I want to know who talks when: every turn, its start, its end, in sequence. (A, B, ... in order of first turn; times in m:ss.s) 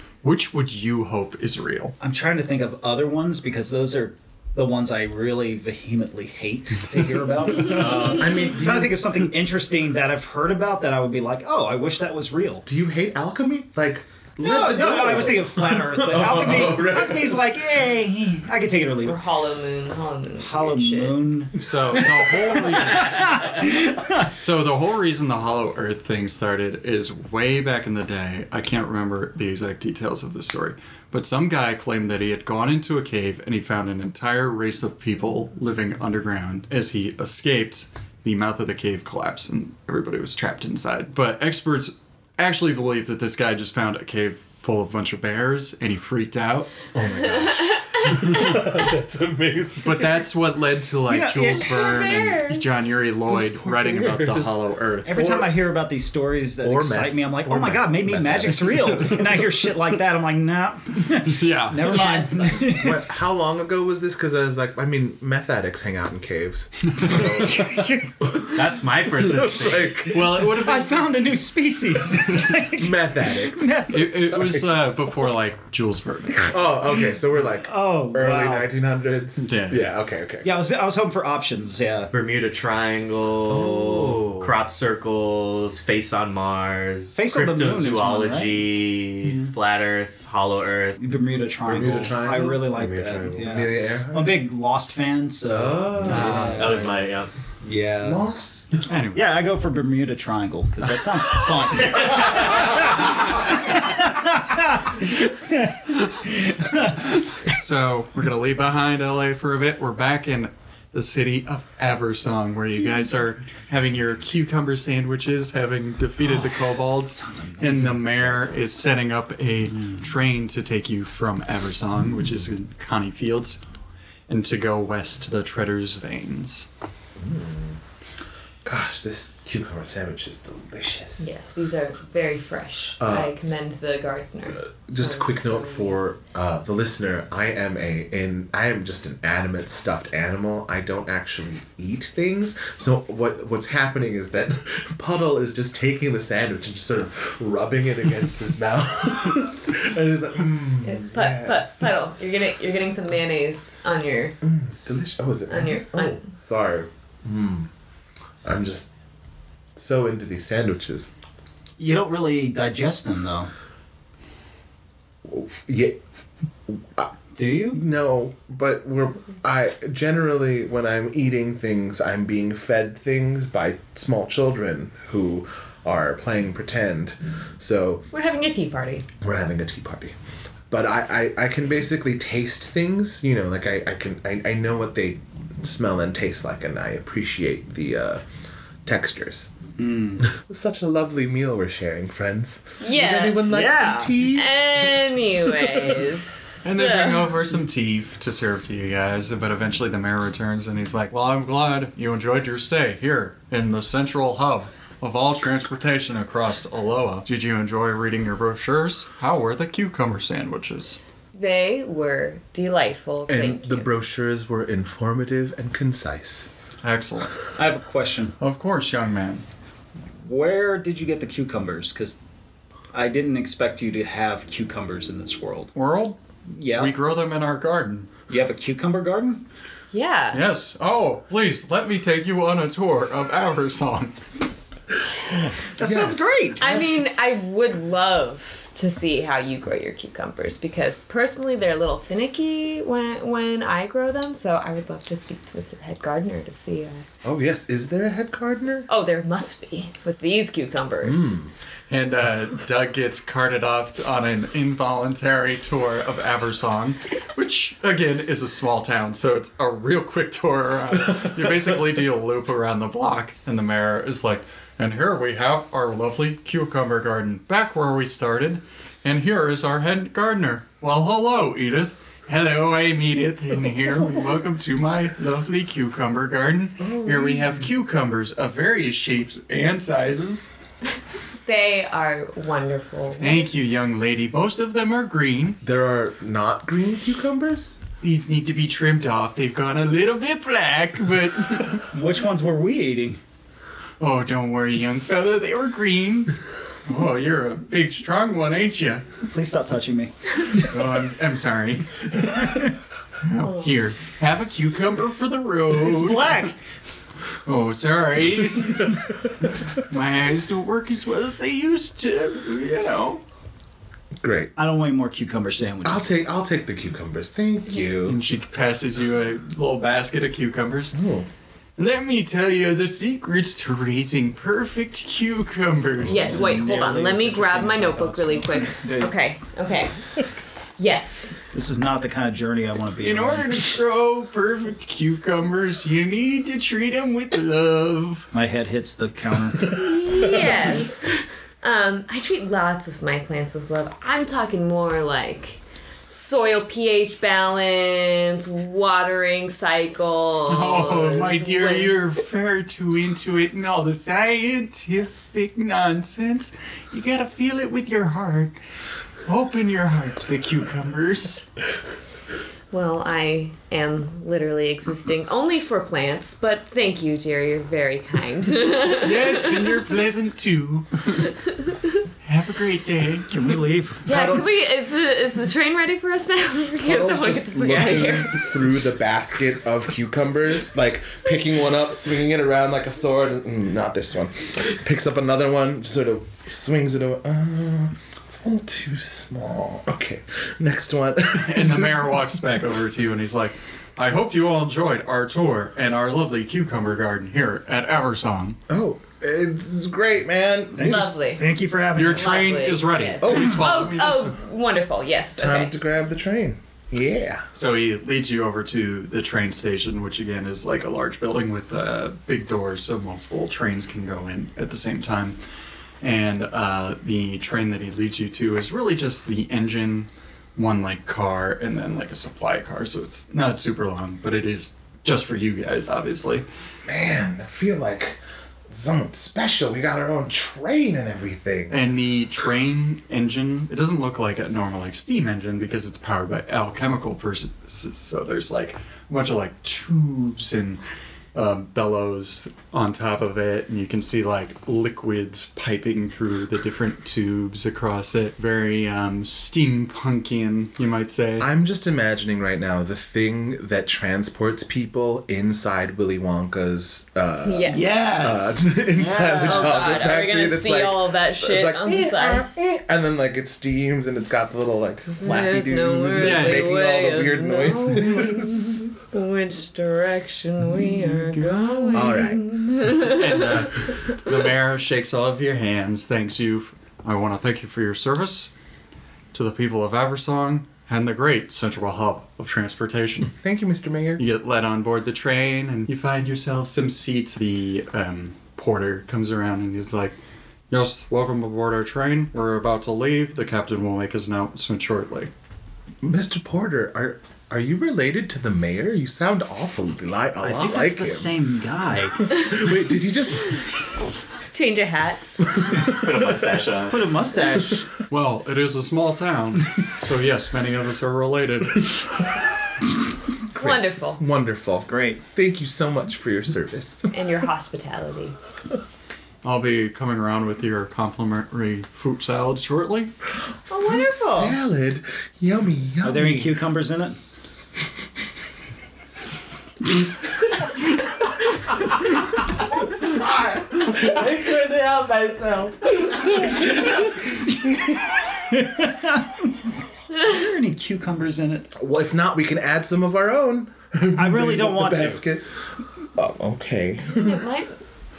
0:00.2-0:02.0 A
0:02.0-0:12.6 B
0:07.7-0:09.0 C
0:07.8-0:08.2 D
0:12.7-0:17.8 C
0:14.4-0:19.2 B
0:19.1-0:21.3 E
0:20.4-0:24.3 B
0:21.6-0:23.7 A
0:24.3-0:46.7 A
0:46.9-0:50.2 C
0:47.1-0:48.7 E
0:49.8-0:55.4 A
0:51.1-0:51.7 B
0:51.6-0:52.9 E
0:53.3-0:55.6 C
0:55.0-1:03.0 B
0:56.6-0:59.8 C
1:01.2-1:02.1 A
1:01.9-1:02.7 E
1:02.6-1:10.4 C
1:07.0-1:08.2 B
1:08.4-1:10.1 D
1:10.1-1:11.1 A
1:10.3-1:14.6 B
1:12.6-1:13.8 C
1:13.9-1:16.6 A
1:14.3-1:14.7 C
1:16.4-1:20.5 C
1:17.6-1:18.7 B
1:19.4-1:19.9 A
1:20.4-1:22.1 B
1:22.1-1:31.0 D
1:23.5-1:24.6 C
1:27.1-1:28.7 B
1:29.2-1:29.5 B
1:31.0-1:37.0 B
1:31.7-1:32.6 C
1:32.5-1:33.6 D
1:33.4-1:34.4 C
1:35.5-1:36.7 C
1:36.1-1:36.6 A
1:36.1-1:37.3 D
1:37.6-1:38.2 B
1:38.0-1:38.8 C
1:38.9-1:39.2 A
1:39.1-1:47.2 B
1:47.4-2:03.6 A
1:56.2-1:58.6 B
1:59.8-2:00.0 B
2:04.3-2:06.7 A
2:07.2-2:07.8 C
2:08.6-2:11.3 C
2:11.2-2:16.2 E
2:13.0-2:13.3 C
2:14.5-2:31.9 C
2:30.8-2:34.4 E
2:34.4-2:37.7 C
2:35.5-2:36.3 E
2:38.4-2:38.9 C
2:39.8-2:41.1 C
2:41.8-2:43.5 B
2:45.2-2:46.0 C
2:46.7-2:47.1 C
2:47.4-2:47.8 B
2:47.7-2:58.1 C
2:58.1-2:59.1 E
2:59.2-3:00.1 C
3:00.7-3:08.2 C
3:08.8-3:09.5 C
3:09.8-3:10.3 B
3:10.2-3:16.1 C
3:12.8-3:13.5 E
3:13.5-3:14.2 B
3:14.3-3:17.4 E
3:16.6-3:31.0 A
3:31.3-3:33.9 E
3:33.3-3:36.5 C
3:36.8-3:37.4 A
3:37.6-3:38.4 B
3:38.4-3:39.4 A
3:40.2-3:42.2 B
3:42.9-3:45.7 B
3:45.7-3:46.2 A
3:46.5-3:47.0 B
3:46.7-3:48.1 A
3:48.3-3:49.5 B
3:49.9-3:50.5 E
3:50.3-3:54.2 A
3:55.4-3:56.9 C
3:55.8-3:56.7 B
3:56.6-4:07.1 E
4:07.2-4:08.9 C
4:08.9-4:11.4 E
4:11.0-4:11.5 C
4:11.9-4:40.5 A
4:36.8-4:37.6 C
4:41.4-4:43.5 E
4:43.2-4:45.6 A
4:45.6-4:47.8 C
4:48.0-4:51.9 A
4:51.9-4:53.2 B
4:54.0-4:59.1 A
4:59.3-5:00.6 B
5:00.6-5:02.1 A
5:02.4-5:02.7 B
5:03.2-5:06.5 A
5:03.4-5:03.7 E
5:05.7-5:06.6 B
5:07.4-5:09.1 A
5:09.7-5:13.2 A
5:14.2-5:14.5 C
5:14.6-5:16.1 B
5:15.8-5:18.2 C
5:18.1-5:21.0 A
5:20.9-5:21.3 C
5:21.8-5:26.4 A
5:26.0-5:26.4 C
5:26.1-5:30.0 E
5:26.1-5:29.1 B
5:30.8-5:31.4 E
5:31.5-5:33.8 B
5:33.0-5:38.3 A
5:38.3-5:39.8 B
5:39.7-5:51.9 E
5:40.1-5:40.5 C
5:50.5-5:58.6 A
5:59.3-6:01.5 A
6:02.7-6:09.8 E
6:08.9-6:11.3 A
6:12.2-6:13.4 A
6:13.3-6:14.1 B
6:14.0-6:18.8 E
6:14.0-6:14.6 C
6:16.8-6:32.2 C
6:31.3-6:38.6 A
6:38.7-6:41.2 C
6:40.8-6:42.5 B
6:40.8-6:41.5 E
6:42.0-6:44.4 A
6:42.0-6:45.7 E
6:43.2-6:43.9 C
6:45.4-6:47.4 C
6:47.5-6:55.4 A
6:56.0-7:06.5 A
7:06.8-7:08.2 C
7:08.7-7:11.8 C
7:11.7-7:20.8 A
7:21.4-7:31.5 A
7:31.4-7:48.9 C
7:37.4-7:38.1 E
7:37.7-7:39.8 B
7:39.4-7:42.5 E
7:45.2-7:54.3 E
7:46.2-7:46.7 A
7:51.9-7:52.4 C
7:52.9-7:58.5 A
7:59.3-8:03.3 A
8:03.3-8:04.2 C
8:04.2-8:10.2 A
8:10.7-8:15.3 A
8:16.0-8:21.4 C
8:20.4-8:22.3 B
8:22.2-8:23.7 C
8:24.5-8:25.2 E
8:25.5-8:26.3 C
8:26.1-8:26.8 D
8:26.3-8:27.0 A
8:26.9-8:27.9 B
8:28.1-8:32.2 A
8:33.5-8:37.1 C
8:33.6-8:34.2 E
8:34.9-8:35.2 B
8:37.1-8:38.4 E
8:39.4-8:43.1 A
8:43.7-8:46.6 C
8:43.7-8:44.6 E
8:46.0-8:47.2 B
8:52.7-8:58.0 C
8:58.2-8:59.6 B
9:00.1-9:01.7 B
9:01.8-9:05.5 C
9:04.2-9:05.2 B
9:06.2-9:07.4 C
9:07.1-9:07.8 E